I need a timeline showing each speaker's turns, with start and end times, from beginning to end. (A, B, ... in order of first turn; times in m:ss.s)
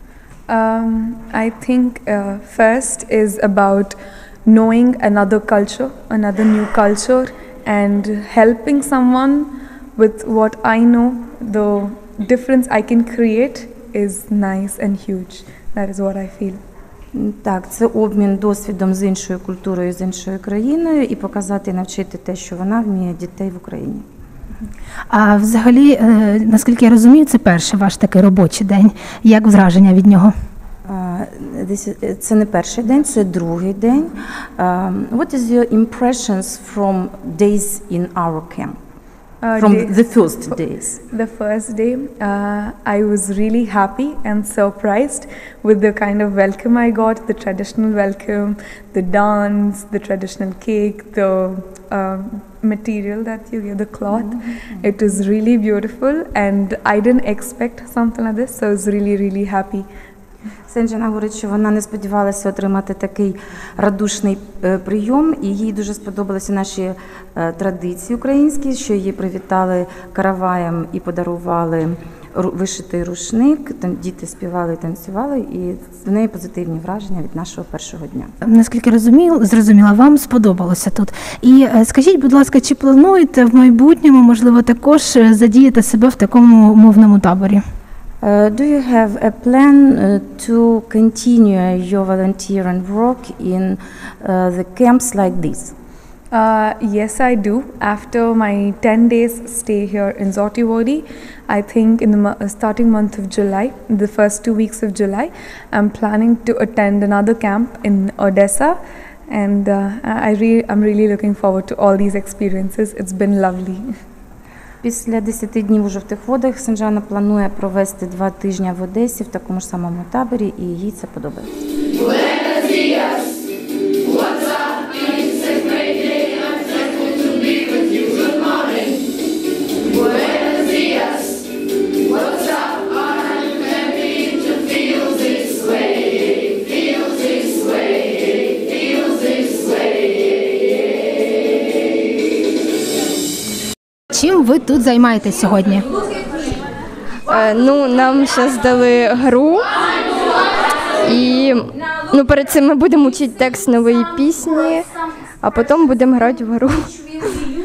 0:00.5-0:16.6 A
0:17.1-0:24.0 B
0:25.1-0:30.3 C
0:30.9-0:38.8 B
0:39.4-0:59.9 A
0:39.6-0:41.0 B
1:00.7-1:18.3 B
1:18.4-1:27.6 C
1:28.2-1:35.8 B
1:36.3-1:53.9 A
1:54.8-2:01.5 B
2:24.1-2:25.9 C
2:27.3-2:29.6 D
2:31.1-2:31.6 D
2:32.1-2:34.8 D
2:35.4-2:37.3 D